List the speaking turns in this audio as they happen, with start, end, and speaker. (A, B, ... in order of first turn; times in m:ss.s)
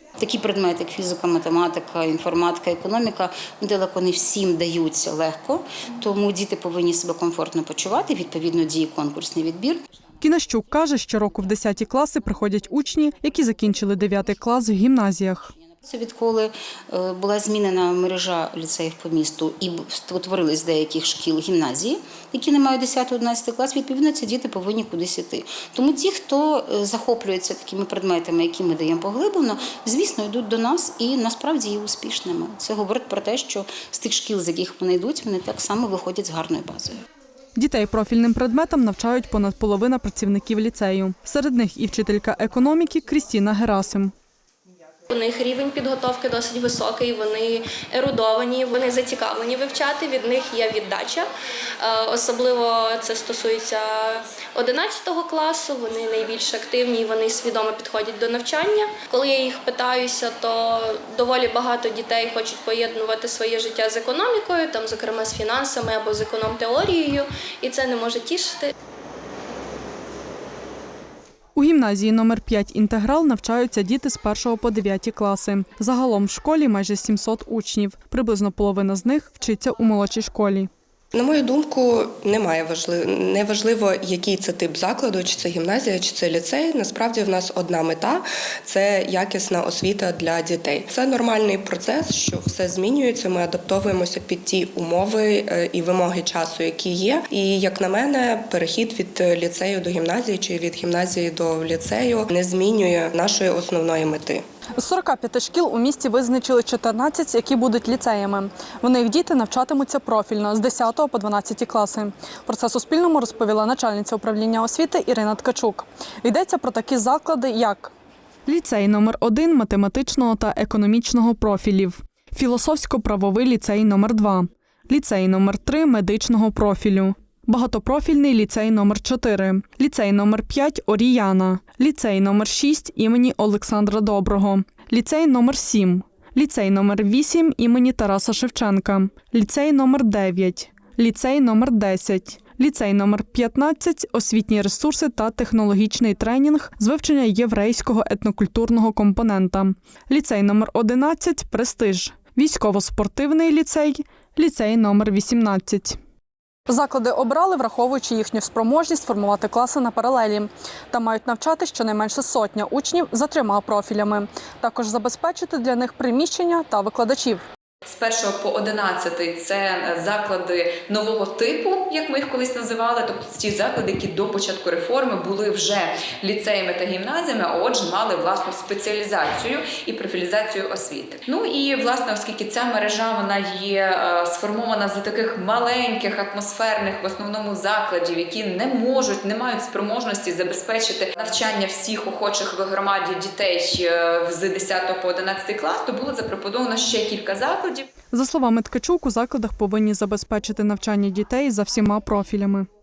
0:00.2-0:09.8 A
0:10.2-0:15.5 B
0:15.8-0:37.0 A
0:37.6-0:44.1 B
0:45.1-0:51.3 C
0:51.8-1:08.7 C
1:11.6-1:20.7 B
1:21.1-1:44.4 D
1:44.8-1:57.9 B
1:58.5-2:36.0 B
2:36.7-2:47.4 B
2:47.9-3:17.9 E
3:18.1-3:22.7 B